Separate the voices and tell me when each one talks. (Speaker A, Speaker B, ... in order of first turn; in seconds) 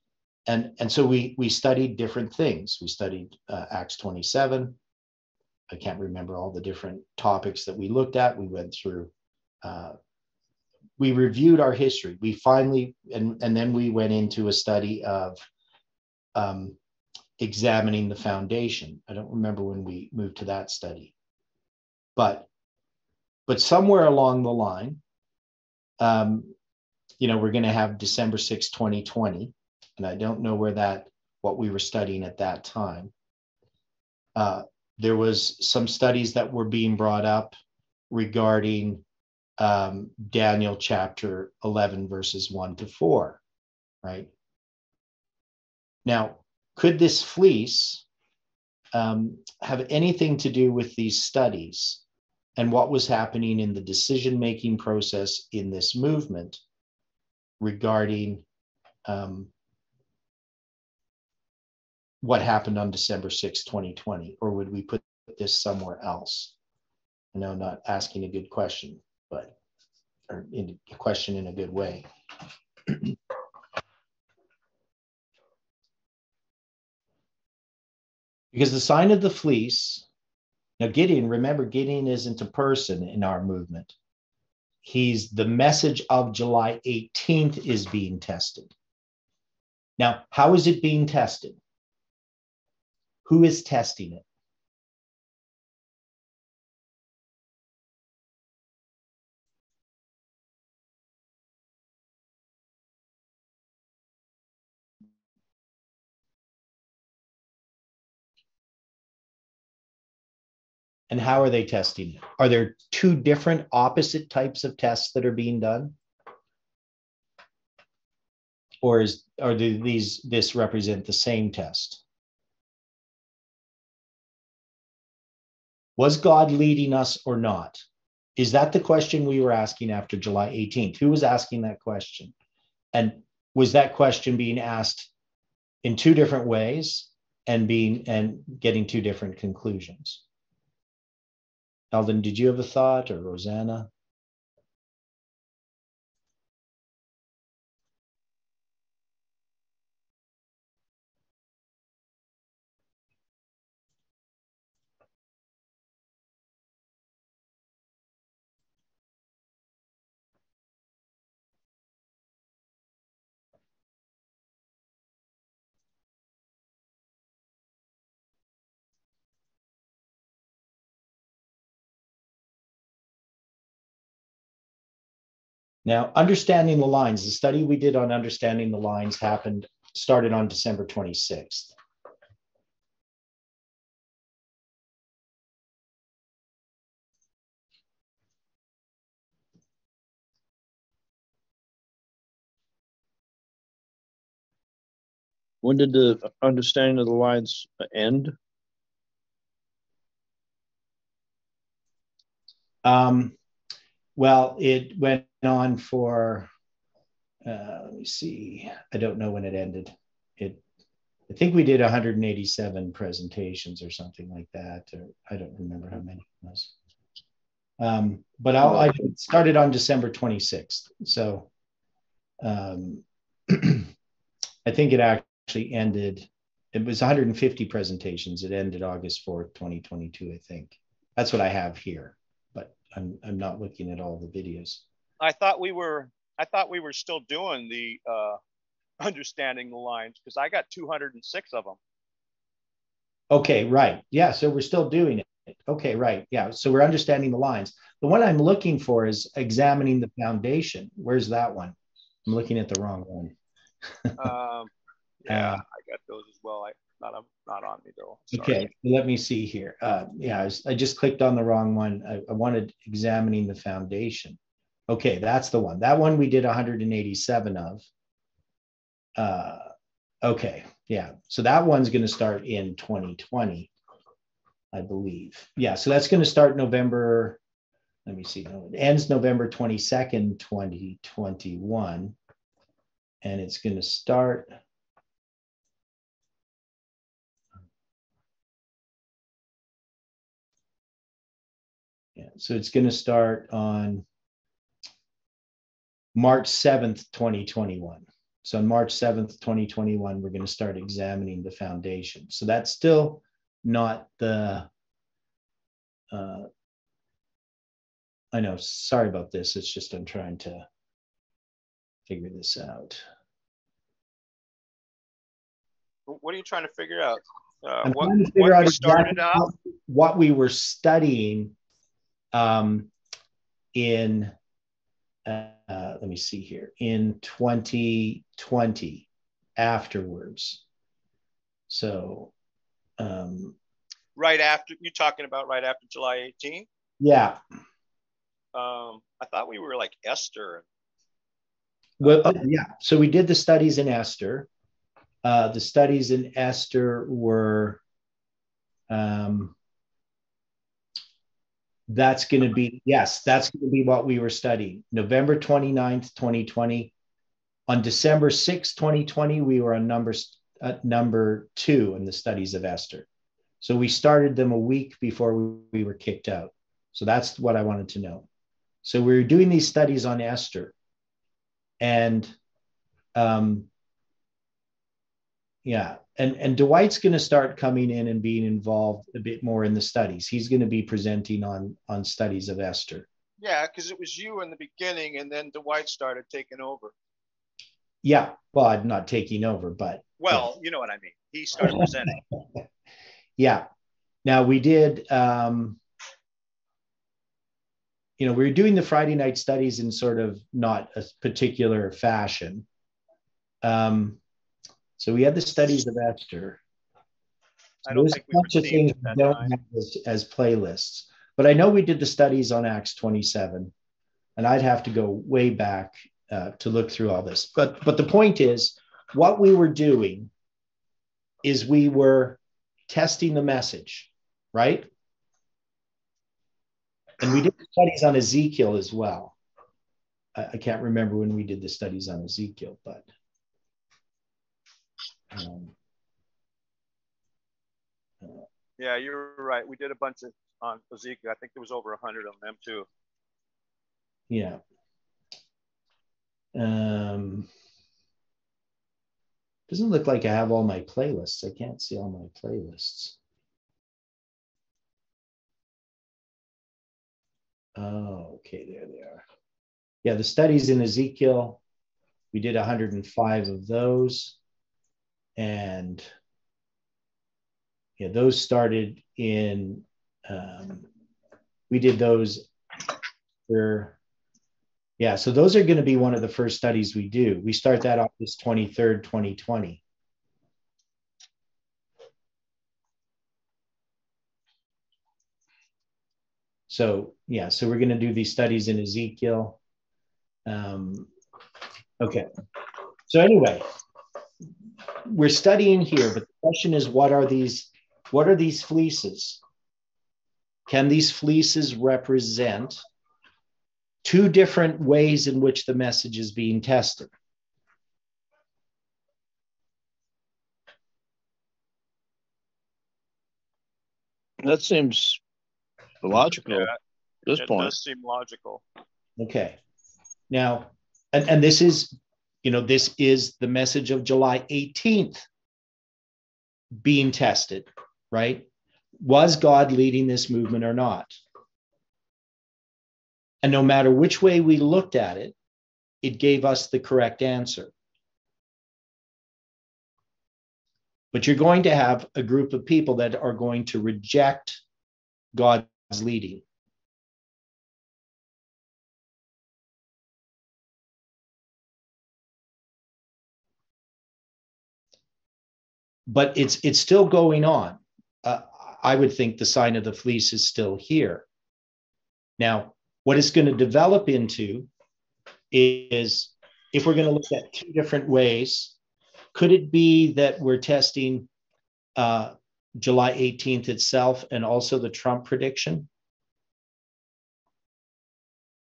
Speaker A: 0.5-4.8, 5.7-9.1, 9.6-9.9, 11.0-15.4, 16.3-16.8, 17.4-21.1, 22.1-22.5, 23.5-25.0, 26.0-26.5, 27.2-33.1, 34.4-37.6, 38.1-39.0, 39.6-43.4, 44.0-44.3, 46.0-48.0, 48.9-52.0, 52.5-56.6, 57.6-58.4, 59.0-59.5, 62.2-66.5, 67.3-69.5, 70.3-72.0, 78.5-80.0, 80.8-83.9, 84.8-88.7, 90.0-91.6, 93.2-94.2, 111.1-116.0, 118.8-122.0, 126.0-127.8, 128.4-132.3, 132.9-135.1, 135.8-140.2, 141.9-143.9, 175.8-181.7, 202.8-203.3, 204.2-206.5, 207.4-210.6, 211.3-216.7, 217.8-221.5, 222.4-223.9, 224.6-234.8, 243.3-253.3, 254.0-254.3, 255.3-255.6, 258.3-264.4, 264.9-267.9, 269.2-269.7, 270.2-273.7, 274.7-277.4, 278.1-282.1, 283.2-284.5, 292.1-294.0, 296.1-304.7, 306.1-306.5, 308.3-310.7, 312.1-313.0, 317.8-321.5, 322.3-322.9, 323.7-324.3, 325.2-330.6, 331.7-332.3, 333.0-333.6, 337.0-337.4, 342.0-344.5, 345.2-347.8, 348.9-349.5, 351.9-356.9, 357.7-363.1, 363.6-368.2, 368.8-370.7, 371.8-372.3, 373.1-373.7, 375.6-383.1, 388.0-390.4, 393.4-393.6, 394.2-395.8, 398.2-402.6, 403.6-404.2, 405.0-406.6, 407.9-413.7, 414.4-420.3, 421.4-424.9, 427.2-429.4, 430.3-433.1, 435.3-435.7, 444.3-444.6, 446.5-447.5, 449.7-453.1, 457.8-459.2, 460.0-461.6, 462.3-464.4, 465.4-466.1, 468.0-470.9, 471.7-472.5, 473.5-473.9, 475.0-479.8, 486.7-489.6, 490.4-491.1, 492.0-492.3, 493.1-493.6, 495.0-499.4, 500.7-502.8, 504.0-507.1, 519.2-519.6, 520.3-525.2, 526.8-528.5, 529.0-531.1, 533.4-535.3, 536.0-537.7, 541.1-544.6, 545.3-546.4, 556.1-561.2, 562.4-564.7, 565.5-568.7, 569.3-571.3, 572.0-575.9
Speaker B: 195.6-198.3, 514.4-515.2, 516.0-516.7, 517.2-517.7
Speaker C: 235.2-238.4, 239.0-241.8, 254.2-254.7, 255.2-258.6, 316.1-319.5, 334.1-336.7, 338.5-340.6, 383.4-386.9, 390.2-392.2, 407.9-409.5, 438.8-442.9, 516.4-516.8, 517.3-518.6